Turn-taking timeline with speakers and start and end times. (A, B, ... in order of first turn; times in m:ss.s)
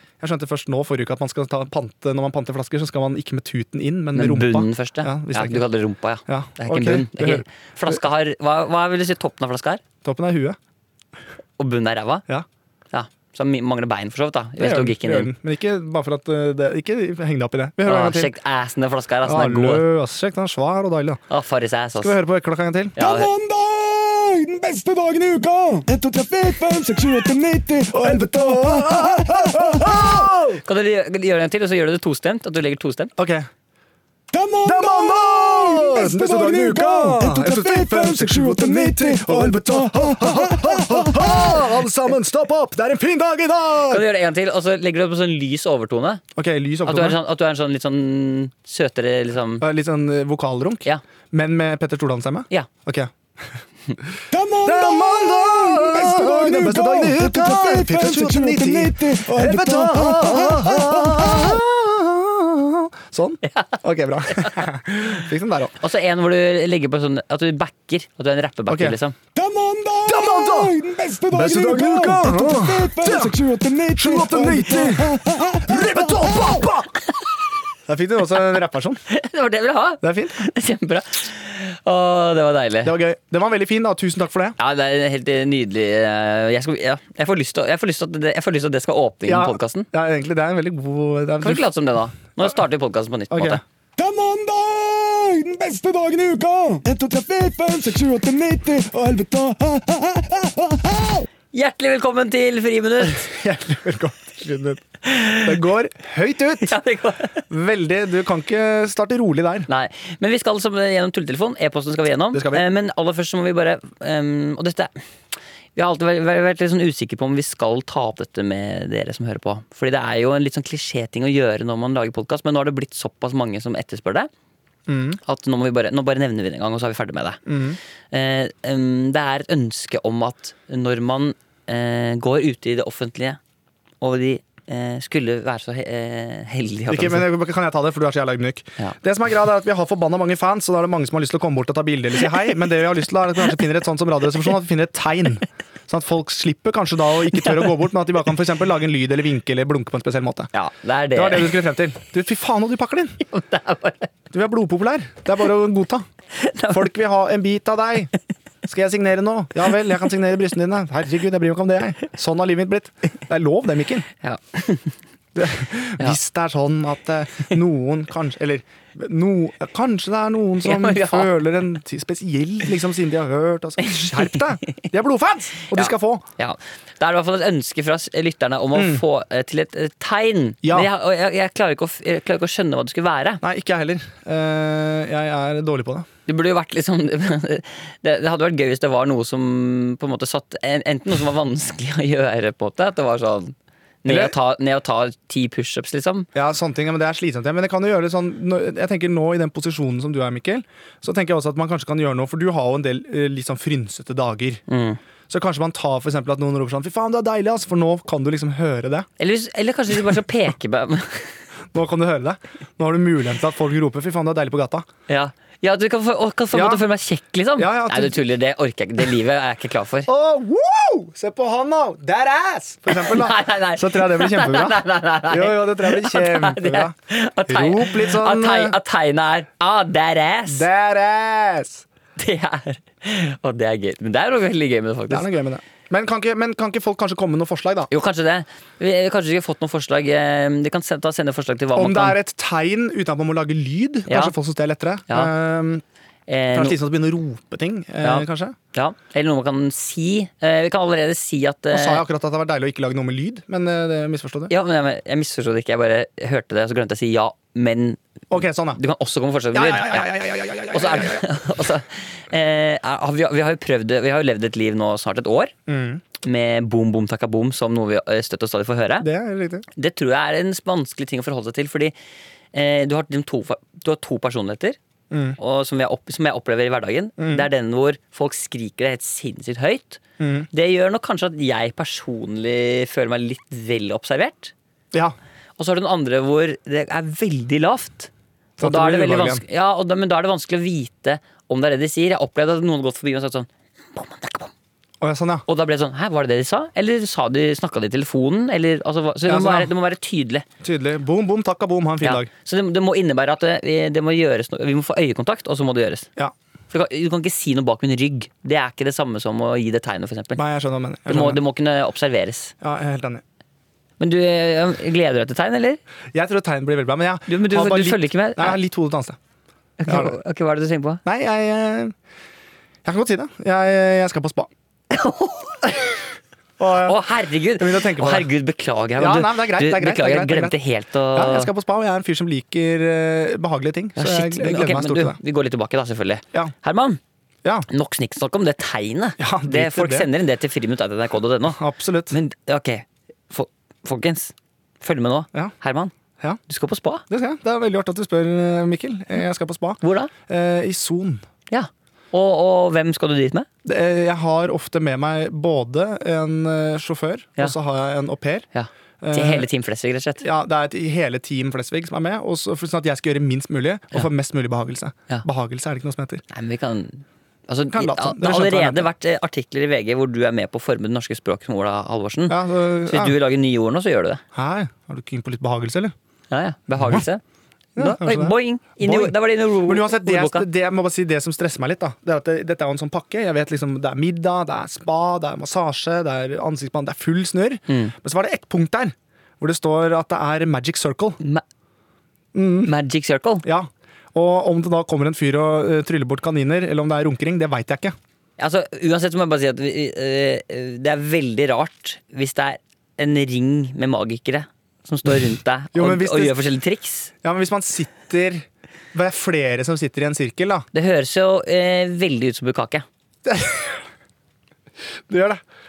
0:00.2-0:05.7 A
0:04.1-0:09.8 B
0:06.2-0:08.0 A
0:10.0-0:10.6 A
0:11.6-0:12.2 B
0:12.9-0:15.3 B
0:14.6-0:18.3 A
0:17.8-0:19.8 B
0:19.2-0:21.2 A
0:21.3-0:22.2 B
0:22.0-0:22.9 A
0:23.0-0:23.3 B
0:23.0-0:30.3 C
0:27.9-0:30.6 A
0:30.6-0:33.1 B
0:33.2-0:33.5 A
0:34.3-0:41.4 C
0:34.6-0:44.0 A
0:43.9-0:46.2 B
0:46.4-0:47.2 A
0:46.8-0:49.6 B
0:49.6-0:53.1 A
0:54.3-1:01.6 C
0:54.6-1:05.7 A
1:03.5-1:03.8 B
1:04.3-1:04.6 B
1:05.8-1:09.2 B
1:08.7-1:09.0 A
1:09.3-1:16.6 C
1:10.0-1:10.8 A
1:11.3-1:13.4 A
1:13.9-1:17.0 A
1:17.9-1:19.0 A
1:19.1-1:23.0 B
1:20.0-1:20.4 A
1:22.8-1:24.6 A
1:24.6-1:29.9 B
1:29.2-1:31.6 A
1:31.4-1:33.6 B
1:33.3-1:33.6 A
1:34.0-1:41.2 C
1:41.5-1:43.3 B
1:43.0-1:46.8 A
1:45.0-1:45.5 B
1:46.6-1:47.4 B
1:47.5-1:49.7 A
1:49.7-1:54.9 B
1:52.3-1:52.6 A
1:55.7-2:04.3 B
2:04.9-2:05.2 A
2:05.2-2:07.4 B
2:07.4-2:07.8 A
2:08.1-2:13.4 B
2:14.0-2:17.3 B
2:16.9-2:30.5 A
2:30.5-2:31.6 B
2:31.1-2:33.2 A
2:33.3-2:34.1 B
2:34.3-2:36.0 A
2:36.4-2:36.9 B
2:36.7-2:38.1 A
2:38.6-2:44.1 A
2:44.2-2:44.9 B
2:45.3-2:56.2 A
2:50.6-2:51.3 B
2:53.9-2:54.2 B
2:55.7-3:03.4 B
2:58.7-2:59.0 A
3:00.6-3:00.9 A
3:03.4-3:06.1 A
3:06.3-3:16.3 B
3:14.0-3:14.3 A
3:16.3-3:24.6 A
3:24.7-3:25.0 B
3:25.3-3:29.1 A
3:29.2-3:31.3 B
3:31.7-3:34.9 A
3:35.1-3:40.1 B
3:36.5-3:36.8 A
3:37.6-3:38.2 A
3:40.1-3:46.9 A
3:42.9-3:50.6 B
3:47.5-3:48.8 A
3:50.5-3:51.8 A
3:52.2-3:55.3 B
3:55.1-3:57.9 A
3:57.9-4:02.2 B
4:01.7-4:05.8 A
4:04.1-4:04.3 B
4:06.3-4:06.8 B
4:06.5-4:08.6 A
4:08.0-4:12.0 B
4:11.7-4:14.5 A
4:14.5-4:18.0 B
4:18.3-4:18.8 A
4:18.8-4:25.5 B
4:19.5-4:21.2 A
4:25.7-4:26.0 A
4:26.2-4:29.1 B
4:29.0-4:29.6 A
4:29.8-4:31.9 B
4:32.5-4:34.8 B
4:35.1-4:35.4 A
4:35.4-4:40.0 B
4:37.2-4:37.5 A
4:40.2-4:40.5 A
4:40.5-4:44.5 B
4:45.6-4:48.1 B
4:48.6-4:49.4 A
4:48.6-4:54.5 B
4:55.0-4:55.4 A
4:55.5-5:00.4 B
4:59.2-4:59.7 A
5:00.6-5:02.3 A
5:02.0-5:06.1 B
5:06.7-5:10.4 B
5:10.4-5:11.4 A
5:11.1-5:12.5 B
5:12.6-5:13.2 A
5:14.0-5:15.8 B
5:16.1-5:19.2 A
5:17.3-5:18.6 B
5:19.8-5:21.0 B
5:19.9-5:20.2 A
5:21.0-5:21.9 A
5:22.8-5:24.5 A
5:24.9-5:25.9 B
5:26.6-5:27.0 A
5:26.7-5:31.5 B
5:27.6-5:28.3 A
5:29.0-5:30.6 A
5:31.1-5:35.2 A
5:34.0-5:37.0 B
5:37.7-5:41.6 B
5:39.2-5:40.1 A
5:41.5-5:42.1 A
5:42.1-5:45.9 B
5:46.5-5:47.0 B
5:47.1-5:51.2 A
5:49.8-5:50.1 B
5:51.5-5:53.5 B
5:53.6-5:58.4 A
5:58.5-6:00.2 B
5:59.0-5:59.5 A
6:00.2-6:06.2 A
6:06.3-6:14.2 B
6:07.7-6:08.9 A
6:12.3-6:13.2 A
6:14.3-6:15.9 A
6:16.3-6:17.2 B
6:17.8-6:31.2 A
6:17.8-6:20.4 B
6:27.7-6:27.9 B
6:32.3-6:32.7 A
6:32.6-6:33.4 B
6:33.4-6:38.0 A
6:38.4-6:47.1 B
6:45.7-6:46.4 A
6:47.2-6:50.7 A
6:50.7-6:52.8 B
6:53.2-6:53.8 A
6:55.1-6:55.4 A